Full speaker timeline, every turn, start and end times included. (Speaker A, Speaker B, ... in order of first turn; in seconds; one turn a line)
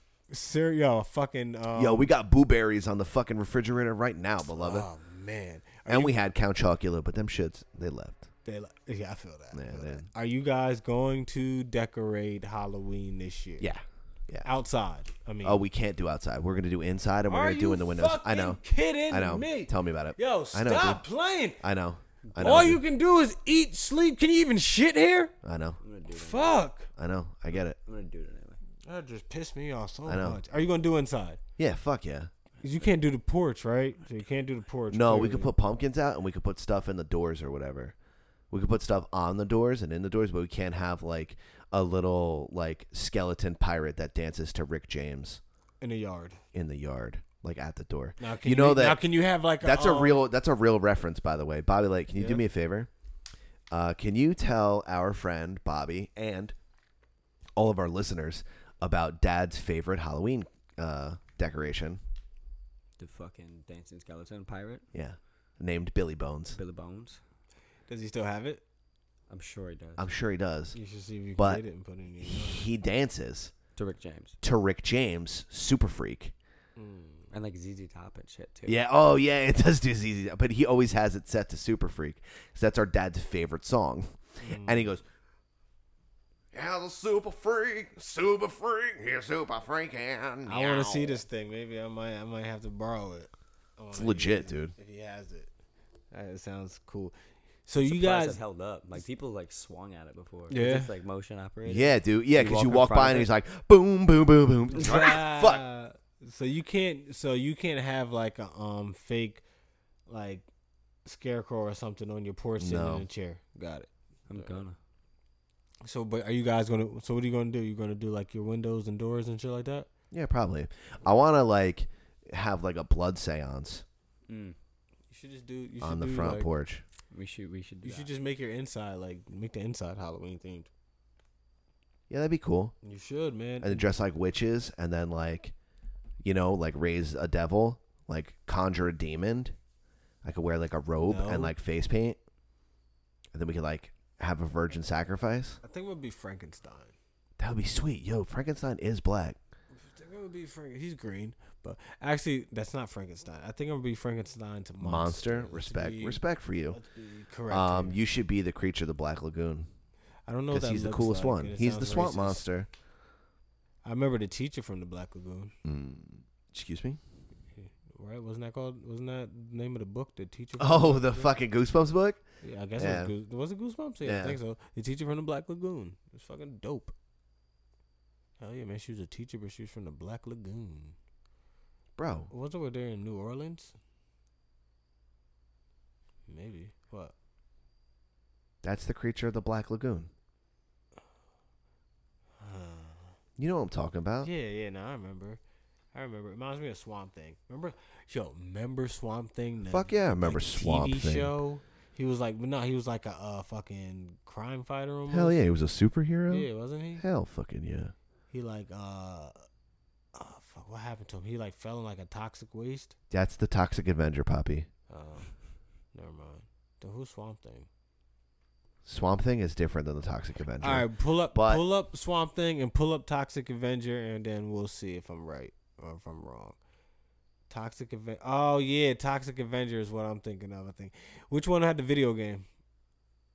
Speaker A: 0.3-2.1
Speaker B: 1.7-4.9
Speaker A: 4.5-6.2
Speaker B: 5.9-8.3
Speaker A: 8.4-13.7
Speaker B: 9.5-10.1
Speaker B: 13.6-14.5
Speaker A: 14.4-15.6
Speaker B: 15.4-21.0
Speaker A: 17.3-21.6
Speaker B: 21.6-22.8
Speaker A: 22.3-25.3
Speaker B: 25.4-25.8
Speaker C: 25.8-26.6
Speaker A: 26.1-26.9
Speaker B: 27.0-27.8
Speaker C: 27.5-28.6
Speaker A: 28.8-31.4
Speaker B: 30.1-30.4
Speaker B: 31.6-32.3
Speaker A: 32.6-35.5
Speaker B: 34.9-37.9
Speaker B: 38.5-45.4
Speaker A: 45.8-46.4
Speaker B: 46.5-49.0
Speaker A: 48.2-50.3
Speaker B: 49.6-52.9
Speaker A: 52.1-52.4
Speaker B: 53.7-56.5
Speaker B: 57.5-62.0
Speaker C: 63.0-64.8
Speaker B: 64.9-66.6
Speaker C: 66.5-67.2
Speaker A: 67.9-68.6
Speaker C: 69.3-70.1
Speaker B: 70.0-70.8
Speaker A: 70.7-72.7
Speaker B: 71.3-71.6
Speaker B: 72.2-73.5
Speaker C: 73.8-74.4
Speaker B: 74.4-76.3
Speaker A: 76.8-77.3
Speaker C: 77.3-78.8
Speaker B: 78.7-85.0
Speaker A: 84.4-84.9
Speaker B: 86.5-91.2
Speaker A: 90.4-95.5
Speaker B: 93.9-94.7
Speaker A: 96.1-97.1
Speaker A: 97.7-98.4
Speaker C: 97.8-103.3
Speaker A: 100.5-100.9
Speaker B: 101.6-105.6
Speaker A: 104.7-109.4
Speaker A: 110.1-110.5
Speaker A: 111.0-114.6
Speaker B: 112.6-113.0
Speaker C: 114.3-114.8
Speaker A: 115.8-119.9
Speaker B: 120.1-123.8
Speaker C: 124.3-124.5
Speaker A: 125.1-126.5
Speaker B: 125.8-126.8
Speaker C: 127.1-128.1
Speaker A: 127.8-130.7
Speaker B: 132.1-132.7
Speaker A: 132.8-133.9
Speaker B: 133.6-135.5
Speaker B: 136.2-139.5
Speaker B: 140.2-142.2
Speaker A: 141.0-141.5
Speaker B: 143.3-145.6
Speaker A: 145.6-146.9
Speaker B: 147.4-149.4
Speaker A: 149.7-158.0
Speaker B: 154.8-156.8
Speaker B: 157.5-159.7
Speaker A: 160.3-162.4
Speaker B: 160.5-162.7
Speaker A: 163.8-165.5
Speaker B: 165.6-167.0
Speaker A: 167.6-171.3
Speaker B: 170.6-172.2
Speaker A: 172.4-176.9
Speaker B: 172.8-173.1
Speaker B: 174.0-174.4
Speaker A: 178.4-180.9
Speaker B: 182.0-182.3
Speaker A: 182.3-183.8
Speaker A: 186.3-187.1
Speaker B: 188.6-190.1
Speaker A: 192.4-193.1
Speaker B: 193.4-194.3
Speaker A: 194.2-195.4
Speaker A: 195.9-205.4
Speaker B: 199.6-201.3
Speaker B: 205.1-207.9
Speaker A: 206.3-207.0
Speaker A: 208.3-209.3
Speaker A: 210.1-212.9
Speaker B: 213.1-214.7
Speaker A: 214.9-215.3
Speaker A: 215.9-217.7
Speaker B: 218.8-221.7
Speaker A: 220.6-226.6
Speaker A: 227.5-232.4